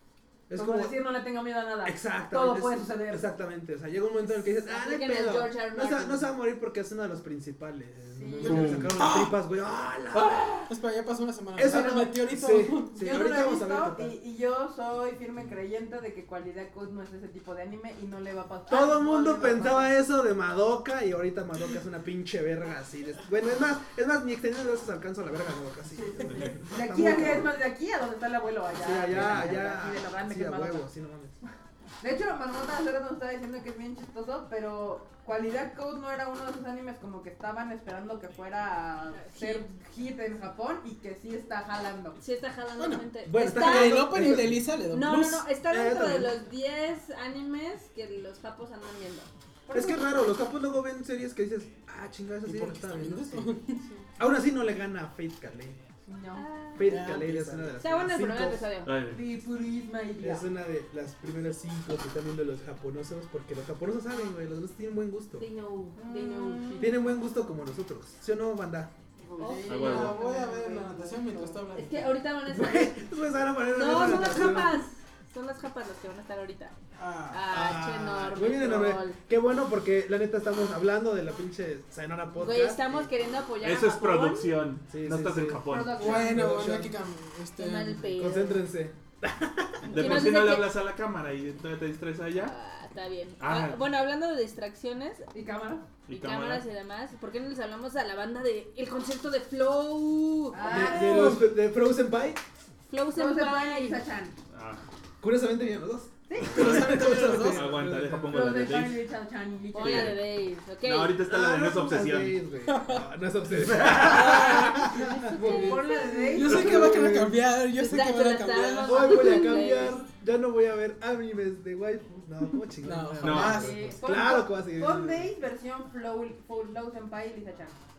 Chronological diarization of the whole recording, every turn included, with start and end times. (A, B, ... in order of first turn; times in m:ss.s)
0:00.5-0:01.0 A
0:00.5-0:03.3 B
0:01.8-0:10.6 A
0:04.5-0:06.3 C
0:08.1-0:08.8 B
0:08.4-0:09.0 D
0:08.8-0:09.4 E
0:10.1-0:13.3 E
0:11.6-0:14.2 A
0:11.7-0:12.1 B
0:13.0-0:19.9 B
0:18.7-0:27.5 A
0:25.9-0:30.8 B
0:26.3-0:26.6 D
0:28.8-0:31.4 A
0:29.1-0:29.5 D
0:32.0-0:42.2 B
0:39.2-0:39.7 C
0:42.2-0:49.3 C
0:42.8-0:45.5 E
0:43.2-0:44.7 A
0:45.6-0:46.4 A
0:49.7-0:50.0 B
0:49.7-0:53.6 A
0:52.4-0:53.9 E
0:54.2-0:55.8 A
0:56.1-0:56.5 B
0:56.4-0:57.0 C
0:56.8-0:58.7 A
0:56.8-0:57.8 E
0:57.8-0:58.9 C
0:58.9-0:59.2 D
0:59.1-1:00.5 B
1:00.2-1:05.5 A
1:05.4-1:06.9 C
1:06.0-1:06.9 B
1:06.8-1:08.9 A
1:09.3-1:11.8 B
1:09.4-1:09.8 C
1:09.5-1:12.2 E
1:09.7-1:10.2 D
1:11.7-1:13.0 C
1:12.5-1:14.8 A
1:13.7-1:16.8 C
1:17.0-1:17.5 E
1:17.3-1:19.2 C
1:17.5-1:23.1 A
1:22.4-1:24.6 C
1:23.6-1:26.2 D
1:24.9-1:27.0 A
1:25.7-1:26.6 B
1:25.9-1:28.2 E
1:27.6-1:28.6 C
1:28.1-1:30.4 A
1:29.8-1:30.7 C
1:29.8-1:32.5 D
1:32.4-1:35.3 C
1:33.4-1:33.8 D
1:35.3-1:35.8 B
1:36.1-1:36.6 D
1:36.1-1:40.6 C
1:40.5-1:41.5 B
1:40.6-1:41.5 E
1:40.6-1:42.4 A
1:42.9-1:44.0 C
1:43.1-1:44.4 B
1:44.5-1:44.8 D
1:45.2-1:48.5 A
1:46.3-1:47.2 B
1:46.4-1:49.1 D
1:46.5-1:47.7 E
1:48.3-1:50.2 B
1:49.7-1:51.2 C
1:49.8-1:50.2 D
1:50.8-1:52.4 D
1:51.2-1:57.4 A
1:52.7-1:53.0 E
1:53.7-1:54.2 D
1:54.0-1:56.1 C
1:54.2-1:55.2 E
1:55.2-1:57.0 B
1:56.1-1:59.4 E
1:57.8-2:00.0 C
1:58.8-2:05.3 A
2:02.8-2:04.0 E
2:03.2-2:03.7 D
2:03.4-2:07.8 B